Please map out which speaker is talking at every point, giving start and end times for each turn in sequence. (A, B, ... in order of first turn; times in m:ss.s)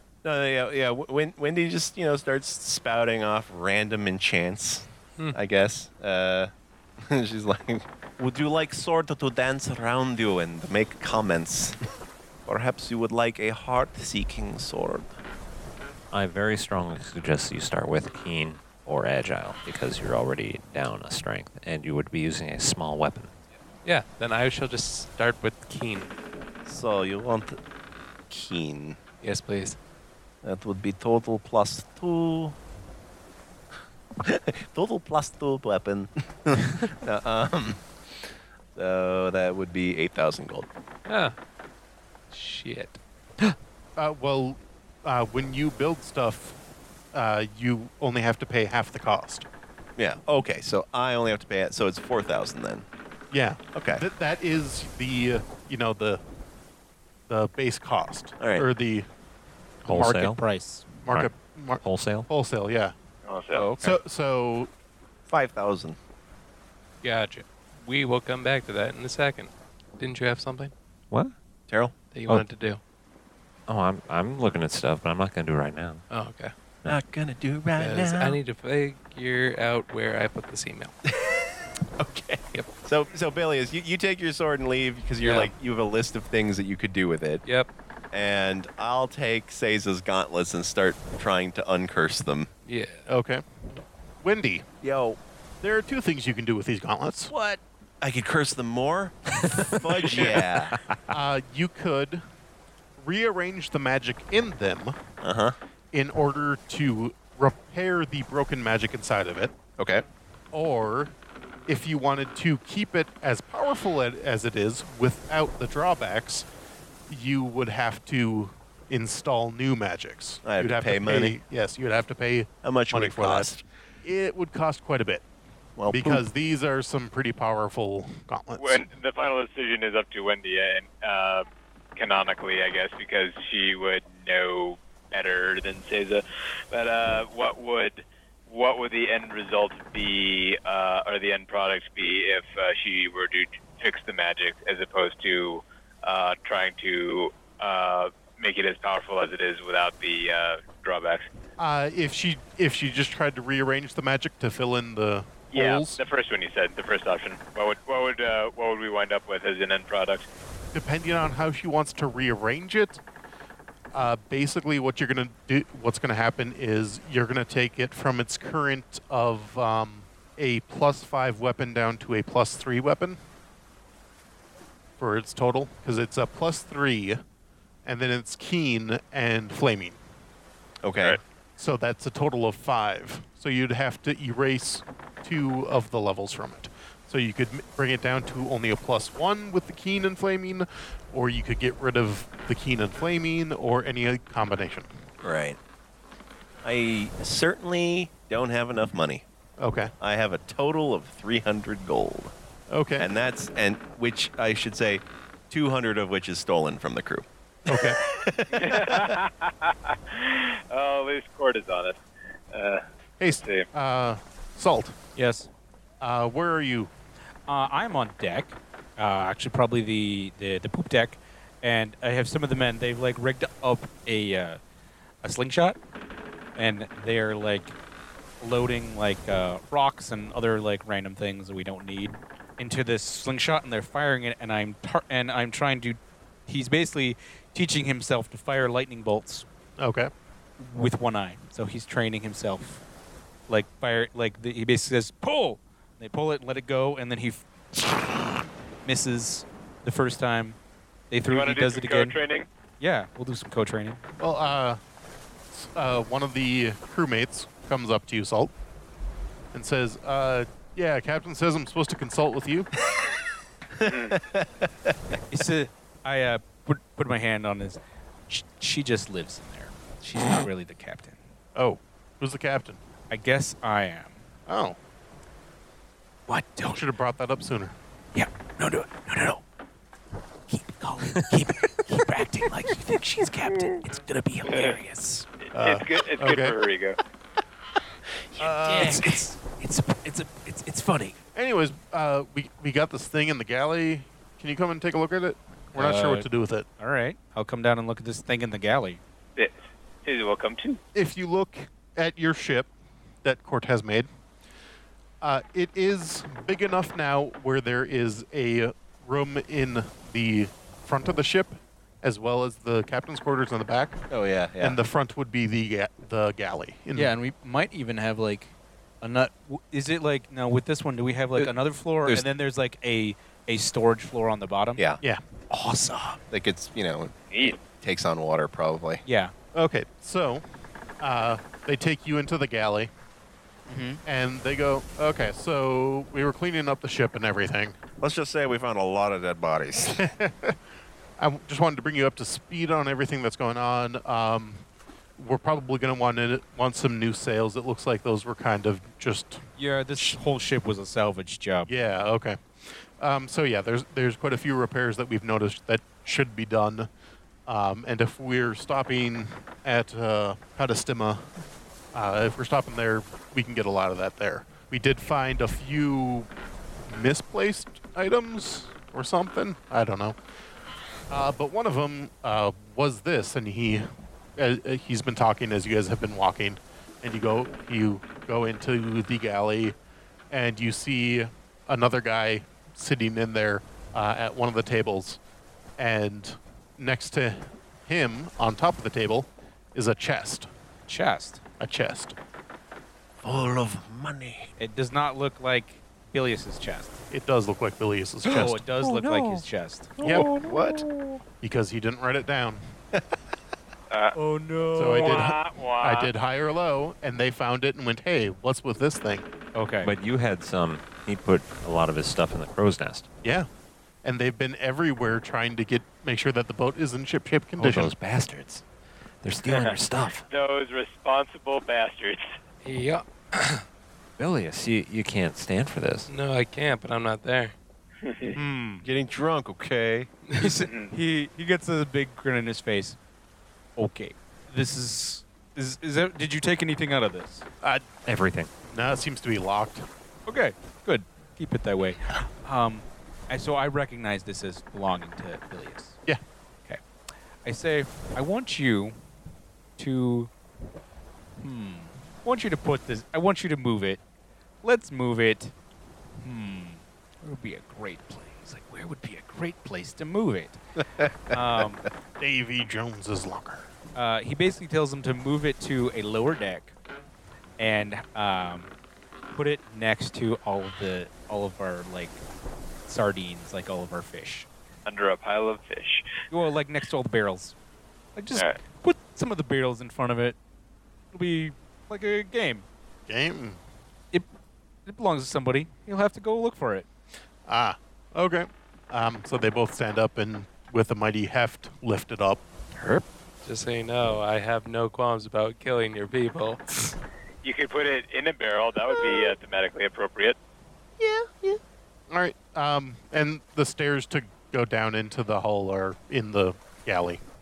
0:00.2-0:11.8 A
0:12.5-0:15.1 A
0:16.1-0:23.3 B
0:23.8-0:26.1 C
0:26.7-0:27.6 A
0:28.3-0:29.0 A
0:29.2-0:29.8 C
0:30.4-0:32.6 A
0:34.2-0:40.7 A
0:41.1-0:41.4 C
0:42.3-0:43.0 C
0:44.0-0:46.6 D
0:47.1-0:49.5 D
0:50.0-0:52.9 A
0:53.3-0:56.2 D
0:53.7-0:54.0 A
0:57.3-0:59.1 D
0:58.4-0:58.7 A
0:59.9-1:00.4 B
0:59.9-1:01.0 E
1:01.0-1:02.9 D
1:01.1-1:02.3 B
1:03.2-1:03.7 F
1:03.6-1:04.0 C
1:03.8-1:04.7 D
1:05.3-1:06.0 A
1:07.0-1:10.7 C
1:11.7-1:11.9 A
1:12.1-1:12.8 C
1:13.7-1:16.0 B
1:16.1-1:16.5 C
1:16.9-1:18.4 A
1:17.8-1:20.9 C
1:21.1-1:21.4 A
1:22.0-1:27.4 A
1:25.2-1:25.5 C
1:28.1-1:32.5 A
1:32.7-1:33.0 C
1:33.1-1:33.4 D
1:34.2-1:34.6 D
1:34.8-1:35.2 A
1:35.6-1:37.3 D
1:37.3-1:40.8 A
1:39.7-1:41.0 B
1:40.1-1:40.5 D
1:41.1-1:42.2 D
1:43.0-1:45.0 D
1:45.2-1:45.6 A
1:45.9-1:49.5 D
1:49.8-1:50.0 A
1:50.5-1:51.1 D
1:51.7-1:56.5 D
1:57.1-2:03.5 D
2:00.4-2:01.4 A
2:02.6-2:03.6 A
2:04.0-2:05.2 D
2:05.8-2:06.2 A
2:05.9-2:08.8 D
2:08.6-2:31.3 F
2:31.6-2:36.0 D
2:35.5-2:40.3 F
2:40.7-2:43.0 D
2:43.9-2:53.2 D
2:55.0-2:57.2 D
2:57.9-3:00.0 D
3:00.8-3:01.2 A
3:01.6-3:14.9 D
3:15.2-3:15.6 A
3:16.6-3:19.2 A
3:19.6-3:19.9 D
3:20.0-3:22.3 A
3:22.7-3:23.1 D
3:23.0-3:29.2 A
3:27.7-3:28.0 D
3:28.5-3:32.0 F
3:32.5-3:32.8 F
3:33.2-3:35.0 D
3:33.4-3:33.7 F
3:35.2-3:35.5 E
3:36.0-3:36.9 D
3:37.5-3:44.6 E
3:45.2-3:45.8 E
3:46.6-3:47.8 E
3:48.4-3:59.5 E
3:59.8-4:00.1 D
4:00.6-4:02.8 E
4:03.5-4:08.3 E
4:08.8-4:10.6 E
4:11.1-4:12.2 E
4:11.3-4:12.5 F
4:12.8-4:14.0 E
4:14.2-4:14.8 D
4:15.5-4:18.5 D
4:19.5-4:22.7 D
4:23.8-4:25.0 A
4:23.9-4:24.2 F
4:25.3-4:31.2 E
4:31.6-4:32.8 D
4:33.1-4:34.2 E
4:34.5-4:34.8 D
4:36.3-4:36.8 E
4:36.7-4:37.8 D
4:38.1-4:39.4 E
4:40.5-4:45.3 E
4:44.4-4:44.8 F
4:45.5-4:47.0 F
4:45.5-4:46.6 D
4:48.3-4:49.2 A
4:48.4-4:51.2 E
4:51.4-4:56.7 D
4:55.8-4:56.3 E
4:56.8-4:59.0 E
4:59.4-5:00.8 F
5:00.9-5:02.7 D
5:03.2-5:04.1 D
5:05.2-5:14.0 D
5:14.1-5:14.8 A
5:14.6-5:17.1 D
5:17.0-5:24.8 E
5:25.5-5:26.2 E
5:26.3-5:29.0 A
5:27.3-5:27.6 F
5:29.0-5:29.3 E
5:29.5-5:30.4 D
5:31.0-5:32.9 D
5:33.7-5:34.0 E
5:34.0-5:37.8 D
5:38.0-5:40.1 A
5:40.0-5:40.6 D
5:41.2-5:44.6 D
5:45.2-5:49.4 D
5:49.6-5:51.7 E
5:51.7-5:56.9 D
5:57.5-6:01.3 D
6:01.9-6:06.3 D
6:06.9-6:10.2 D
6:11.1-6:19.8 D
6:20.3-6:25.2 D
6:25.8-6:30.5 D
6:30.9-6:31.4 E
6:31.6-6:32.2 D
6:33.2-6:34.5 A
6:34.6-6:37.0 E
6:37.1-6:38.6 D
6:38.3-6:40.3 E
6:38.8-6:39.5 B
6:40.0-6:41.2 B
6:40.0-6:40.3 D
6:40.0-6:40.8 A
6:41.4-6:42.6 D
6:43.9-6:44.2 F
6:44.1-6:45.3 E
6:44.7-6:49.3 D
6:45.0-6:46.1 F
6:49.6-6:49.9 E
6:49.8-6:53.1 B
6:53.2-6:53.5 D
6:54.0-6:57.9 D
6:57.6-6:58.6 B
6:59.2-7:00.2 B
6:59.5-6:59.7 F
7:00.3-7:02.2 F
7:02.6-7:03.6 C
7:04.2-7:06.1 B
7:06.1-7:07.6 C
7:08.0-7:08.4 F
7:08.4-7:08.8 E
7:08.8-7:10.1 A
7:10.4-7:13.0 E
7:10.7-7:10.9 F
7:13.8-7:17.4 E
7:18.1-7:18.5 B
7:18.7-7:19.9 D
7:20.3-7:26.0 E
7:27.4-7:29.0 E
7:29.8-7:30.3 E
7:31.4-7:34.0 E
7:34.6-7:35.5 E
7:36.2-7:40.6 E
7:41.0-7:41.3 A
7:41.3-7:41.8 E
7:42.2-7:43.7 D
7:44.0-7:46.7 E
7:47.6-7:48.7 E
7:49.3-7:52.2 E
7:52.9-7:54.5 E
7:54.9-7:56.1 F
7:56.3-7:57.6 E
7:58.2-8:00.4 E
7:58.3-7:58.6 F
8:01.1-8:02.7 E
8:03.1-8:03.6 D
8:04.9-8:06.9 E
8:07.5-8:12.4 D
8:12.8-8:13.0 E
8:13.4-8:17.0 C
8:17.4-8:20.4 F
8:18.9-8:19.2 A
8:21.0-8:21.6 A
8:22.1-8:27.2 D